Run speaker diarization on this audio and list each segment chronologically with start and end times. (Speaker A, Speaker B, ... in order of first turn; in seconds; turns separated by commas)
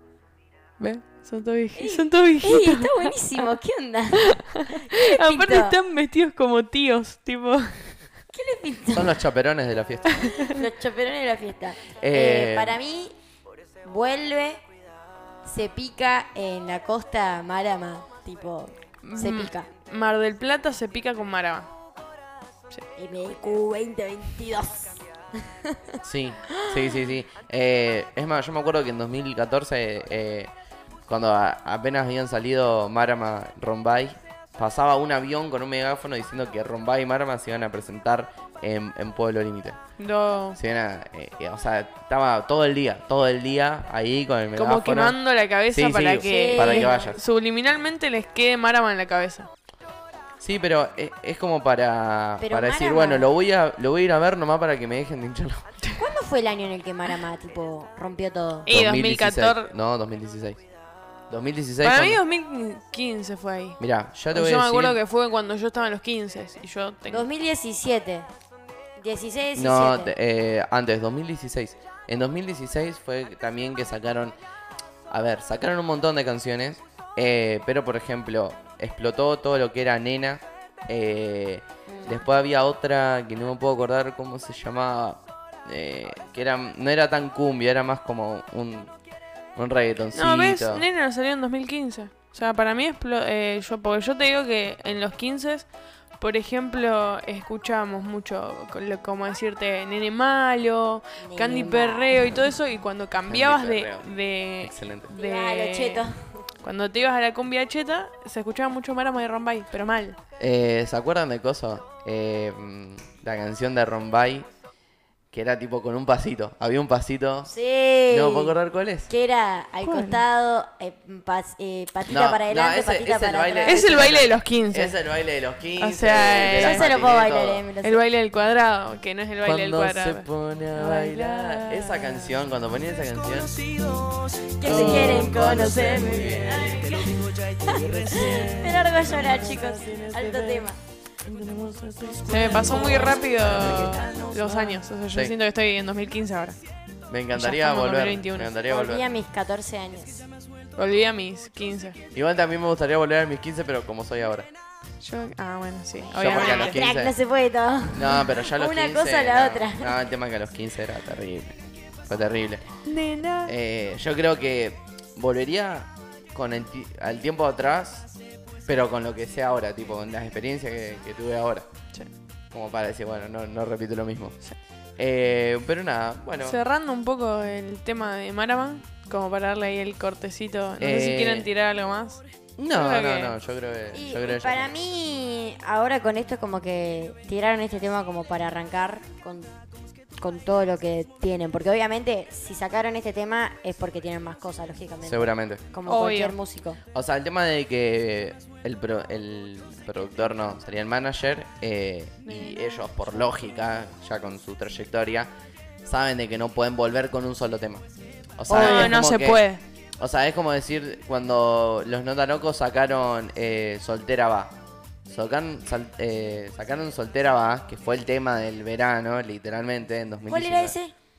Speaker A: 0.8-3.5, Speaker B: 1.8-5.8, Speaker A: 4.2-8.1, Speaker B: 8.3-9.2, Speaker C: 8.9-10.1, Speaker A: 10.1-10.6, Speaker B: 10.2-13.1, Speaker C: 11.9-12.8, Speaker B: 13.8-14.6, Speaker B: 15.4-19.7, Speaker A: 19.0-21.7, Speaker B: 23.0-25.8, Speaker C: 26.0-30.5, Speaker B: 26.6-27.0, Speaker C: 31.1-39.8, Speaker A: 40.0-40.6, Speaker C: 40.5-45.2, Speaker A: 44.6-49.5, Speaker C: 45.7-47.2, Speaker B: 46.2-47.1, Speaker C: 50.4-55.7, Speaker B: 52.4-53.4, Speaker B: 56.0-58.7, Speaker A: 58.6-59.7, Speaker C: 58.7-60.6, Speaker C: 61.3-62.2, Speaker A: 61.8-63.8, Speaker C: 63.8-65.0, Speaker A: 64.3-67.3, Speaker B: 67.1-68.3, Speaker B: 69.0-70.1, Speaker C: 69.6-74.3, Speaker C: 75.1-88.9, Speaker B: 81.9-82.2, Speaker C: 89.6-90.8, Speaker A: 90.1-95.7, Speaker A: 96.2-106.1, Speaker B: 101.2-102.3, Speaker C: 103.3-104.1, Speaker C: 104.6-105.1, Speaker B: 105.1-106.2, Speaker A: 106.6-110.2, Speaker C: 110.4-114.5, Speaker C: 115.3-117.5, Speaker B: 117.5-118.6, Speaker C: 118.1-119.1, Speaker B: 119.1-124.2, Speaker A: 119.8-120.2, Speaker C: 122.1-127.7, Speaker A: 123.7-125.0, Speaker A: 125.8-126.9, Speaker B: 126.3-128.0, Speaker A: 127.8-132.3, Speaker C: 129.4-134.1, Speaker B: 134.6-140.8, Speaker C: 134.6-140.7, Speaker C: 141.2-145.3, Speaker A: 142.2-146.6, Speaker B: 142.8-143.2, Speaker C: 147.1-149.1, Speaker A: 147.3-148.6, Speaker B: 148.7-150.3, Speaker A: 150.8-152.0, Speaker C: 152.1-154.5, Speaker A: 155.0-156.8, Speaker C: 156.1-157.1, Speaker B: 156.1-160.0, Speaker C: 157.9-162.8, Speaker A: 162.8-163.5, Speaker C: 163.4-168.1, Speaker C: 168.7-171.7, Speaker C: 172.5-174.4, Speaker C: 175.0-176.6, Speaker A: 176.4-183.3, Speaker C: 180.8-181.5, Speaker C: 182.6-184.7, Speaker B: 183.9-189.5, Speaker B: 190.2-196.8, Speaker C: 195.0-195.7, Speaker A: 195.9-196.4, Speaker C: 196.9-205.3, Speaker A: 202.3-202.8, Speaker C: 205.8-207.9, Speaker C: 208.4-209.4, Speaker A: 208.5-209.6, Speaker B: 208.5-208.9, Speaker C: 210.0-220.8, Speaker B: 220.3-220.9